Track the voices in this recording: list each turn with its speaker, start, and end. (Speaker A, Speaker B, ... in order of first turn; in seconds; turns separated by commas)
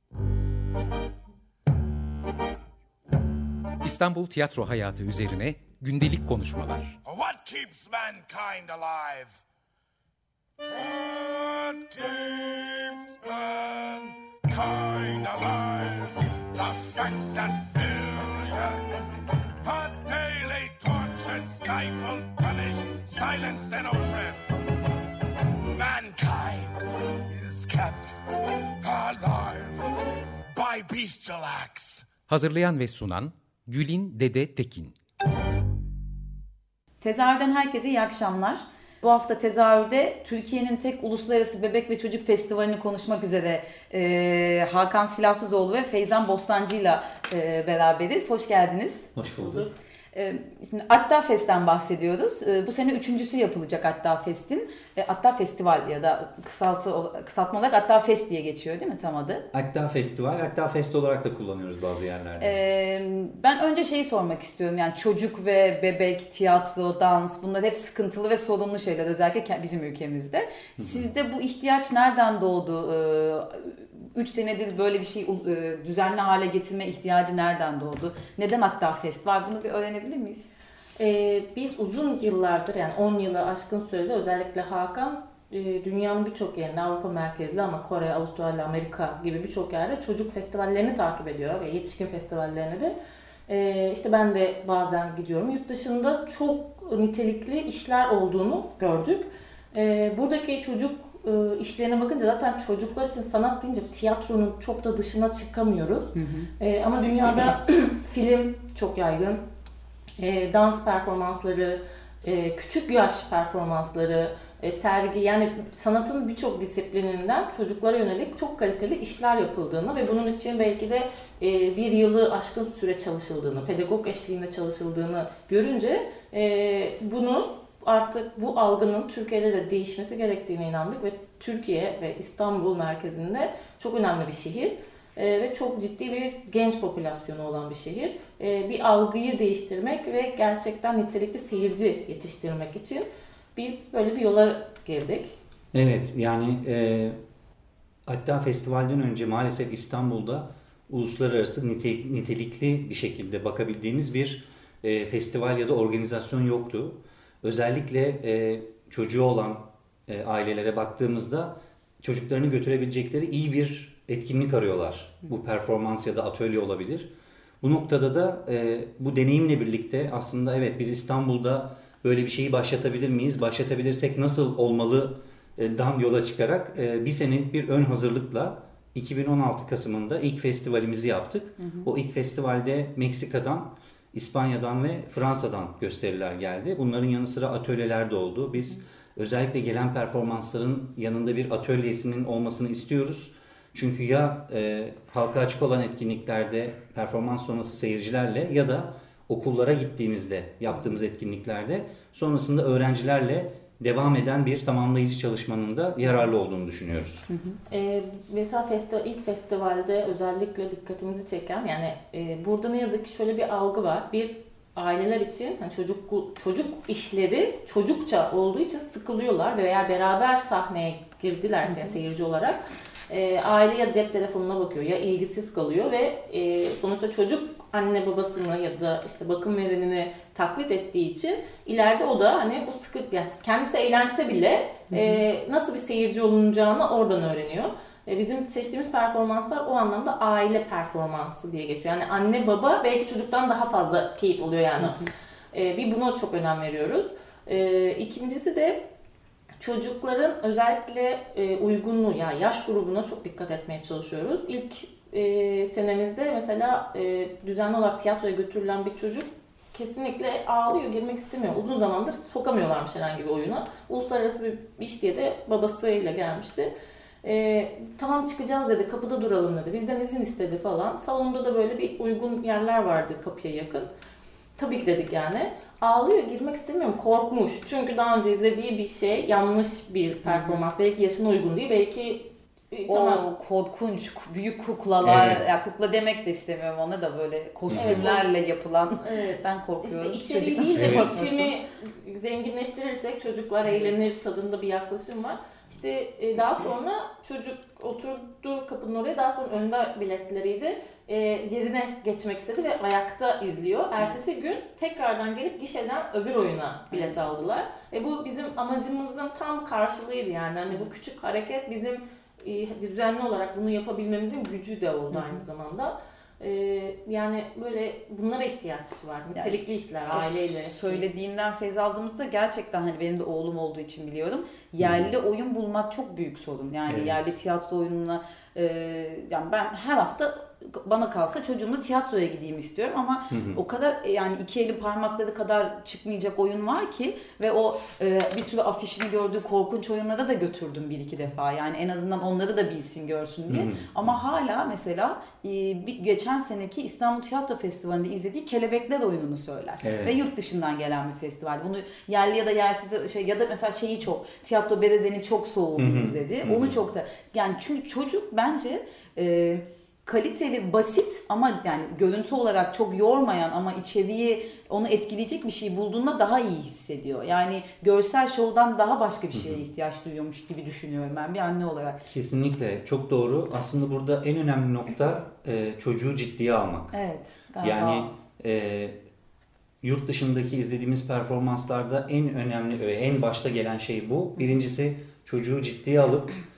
Speaker A: 3.8-7.0, Speaker B: 7.0-9.4, Speaker B: 10.6-18.9, Speaker B: 19.6-24.5, Speaker B: 25.7-26.8, Speaker B: 27.3-28.2, Speaker B: 28.8-29.9, Speaker B: 30.5-32.1, Speaker A: 32.3-34.9, Speaker C: 37.0-49.1, Speaker D: 49.1-49.6, Speaker E: 49.4-49.7, Speaker C: 50.1-59.4, Speaker D: 59.5-62.6, Speaker C: 62.4-80.5, Speaker D: 70.8-71.1, Speaker E: 81.0-92.9, Speaker E: 93.5-109.4, Speaker C: 106.1-106.5, Speaker E: 110.2-145.3, Speaker D: 145.7-147.2, Speaker D: 148.1-167.1, Speaker D: 167.6-207.3, Speaker C: 181.6-181.9, Speaker C: 207.3-207.6, Speaker E: 207.7-248.8, Speaker C: 221.7-221.9, Speaker C: 234.9-235.2, Speaker E: 249.6-266.7, Speaker E: 267.2-273.9, Speaker E: 274.6-283.2, Speaker C: 280.3-280.6, Speaker C: 282.9-291.5, Speaker D: 285.0-285.5, Speaker D: 287.7-288.1, Speaker E: 287.7-288.3, Speaker E: 289.0-321.1, Speaker D: 290.8-291.1, Speaker C: 293.6-294.1, Speaker C: 306.9-307.2, Speaker C: 315.1-315.4, Speaker C: 320.1-372.0, Speaker D: 324.8-325.1, Speaker D: 326.9-327.3, Speaker D: 333.3-333.6, Speaker D: 343.5-343.9, Speaker D: 349.8-350.2, Speaker D: 355.8-356.8, Speaker D: 369.3-369.6, Speaker D: 372.1-377.0, Speaker C: 376.9-378.1, Speaker D: 377.6-378.9, Speaker D: 379.8-386.4, Speaker C: 384.4-384.6